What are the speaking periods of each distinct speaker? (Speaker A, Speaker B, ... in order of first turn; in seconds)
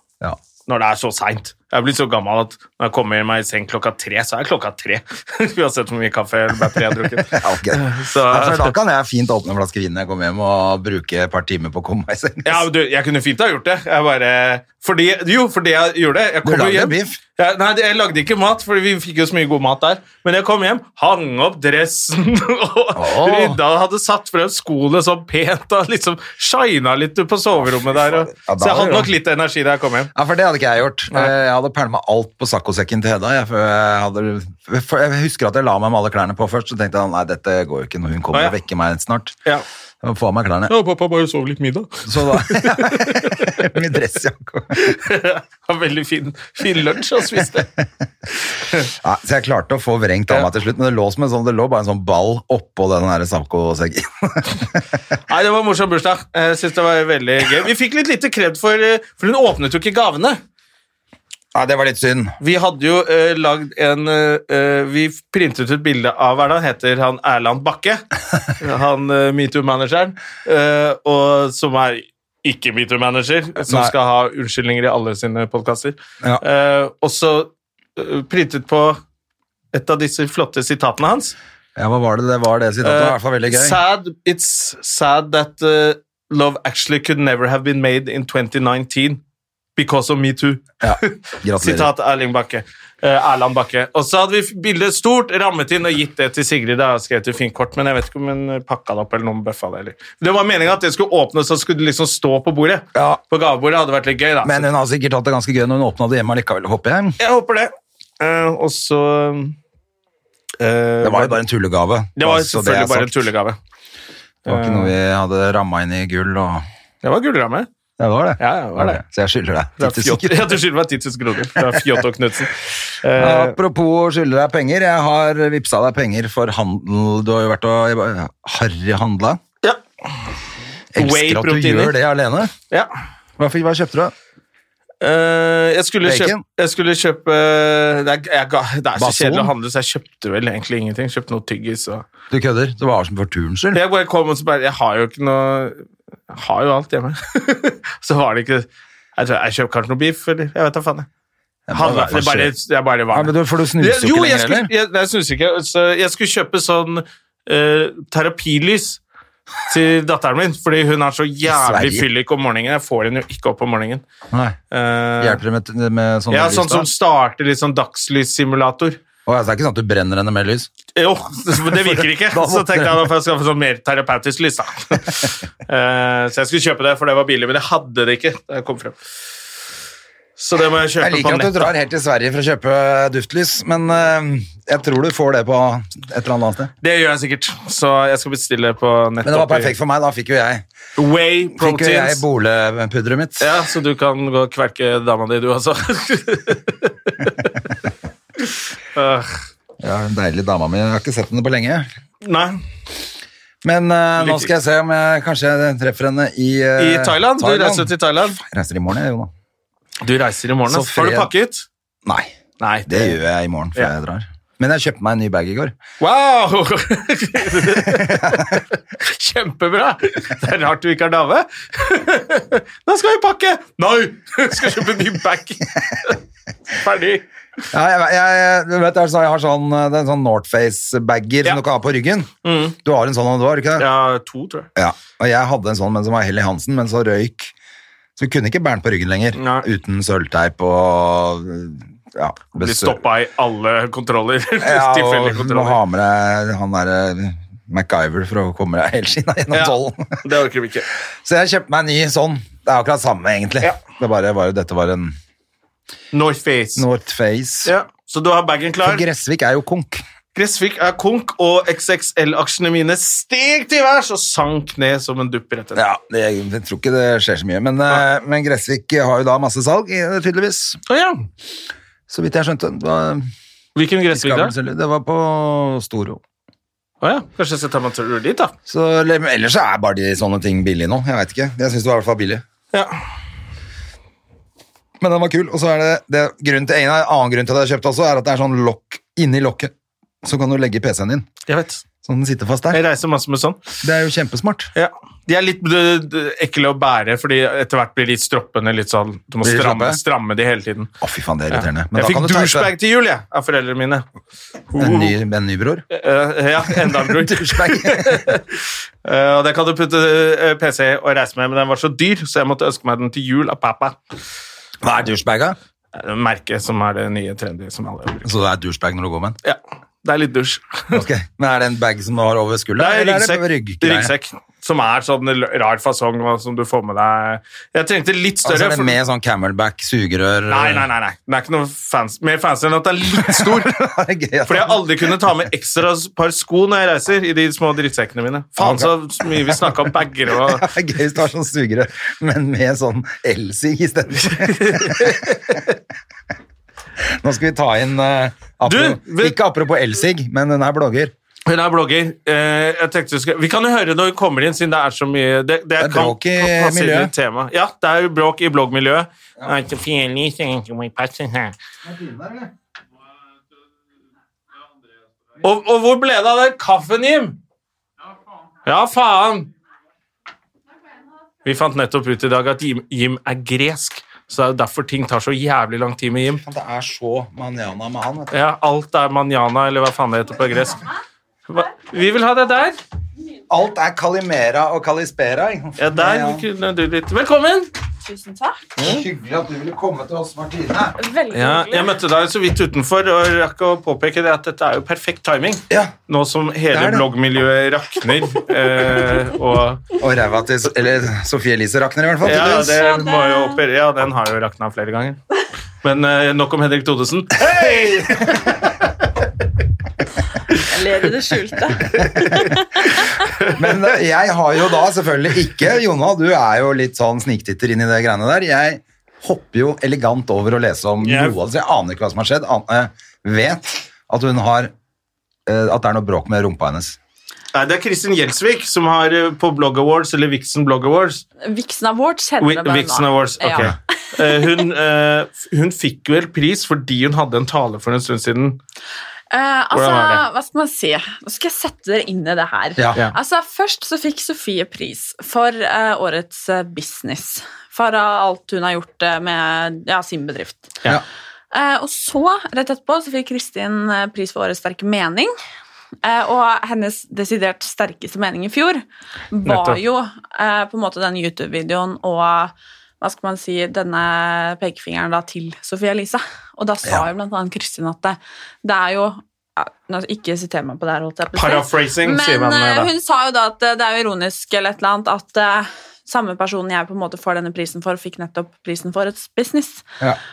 Speaker A: 0.7-8.7, 12.4-30.1, 38.3-38.6, 40.7-43.7, 44.8-47.7, 55.3-60.4, 62.4-68.0, 68.6-79.0, 79.7-81.3, 82.8-89.2, 89.8-104.7, 107.2-109.6, 110.6-111.4, 112.2-113.6, 114.5-114.9, 117.0-117.7, 118.4-119.0, 119.8-123.6, 131.0-131.9, 135.0-142.1, 143.7-151.1, 151.7-159.0, 159.7-164.0, 164.7-165.4, 166.3-169.0, 170.9-179.0, 180.4-181.7, 186.8-189.7, 191.0-192.2, 193.4-197.6, 198.4-199.4, 202.2-202.6, 204.2-204.5, 206.8-208.4, 210.0-211.7, 212.6-213.2, 216.0-226.2, 226.7-227.3, 232.4-232.8, 233.8-234.7, 239.3-239.7, 242.6-245.8, 249.5-250.9, 256.1-256.9, 257.6-259.1, 260.4-265.8, 270.9-271.3, 273.8-274.6, 277.0-278.5, 291.5-291.8, 292.7-293.6, 294.8-300.9, 301.5-304.1, 304.7-305.1, 305.9-314.0, 315.9-318.3, 319.4-321.1, 322.8-328.9, 330.5-333.8, 334.5-340.7, 344.2-345.7, 348.7-349.4, 351.5-361.6, 365.4-367.4, 368.6-369.5, 371.4-376.4, 378.3-380.9, 381.5-382.8, 385.8-387.7, 388.8-389.0, 391.3-399.9, 402.2-405.2, 405.8-408.7, 412.1-412.5, 413.4-413.7, 421.0-421.4, 427.5-431.2, 432.4-438.6, 439.7-440.2, 459.5-459.8, 471.4-472.9
Speaker B: 7.3-12.7, 16.4-17.2, 23.0-23.6, 27.9-29.1, 30.1-39.4, 40.0-40.7, 42.0-44.9, 49.0-54.8, 61.5-62.4, 73.6-73.9, 81.8-83.8, 90.8-91.9, 103.0-103.2, 104.4-107.2, 111.0-113.2, 114.5-116.7, 118.0-120.6, 121.6-122.0, 123.2-129.4, 130.9-132.5, 133.4-134.1, 136.0-136.4, 139.0-139.5, 142.3-143.8, 151.7-152.6, 153.1-154.7, 161.5-162.1, 164.3-164.6, 165.2-166.9, 169.3-170.7, 171.6-173.1, 181.0-186.7, 189.2-190.7, 191.6-193.5, 199.8-201.9, 203.6-209.3, 210.7-211.3, 212.1-212.3, 212.9-215.8, 217.8-218.6, 227.7-232.3, 232.8-233.9, 234.8-237.5, 238.2-243.0, 244.6-250.2, 251.2-255.2, 256.8-257.7, 258.8-260.0, 265.8-270.8, 272.1-273.3, 274.1-276.2, 278.7-282.4, 285.0-289.7, 290.2-291.3, 292.1-292.8, 293.8-294.7, 299.4-300.0, 301.0-302.7, 304.8-305.8, 306.7-308.3, 314.8-315.6, 318.2-319.4, 320.9-324.1, 328.4-330.9, 333.1-335.5, 338.6-345.6, 347.0-351.1, 355.8-357.1, 361.8-362.5, 376.4-378.3, 383.5-386.4, 388.8-391.0, 395.7-395.9, 396.7-397.1, 400.0-402.8, 407.6-408.3, 413.5-424.7, 425.5-427.0, 442.8-443.0
Speaker C: 388.0-388.7, 391.0-391.9, 402.7-403.6, 410.5-412.9, 431.4-434.6, 439.3-450.8, 451.5-455.3, 456.0-479.9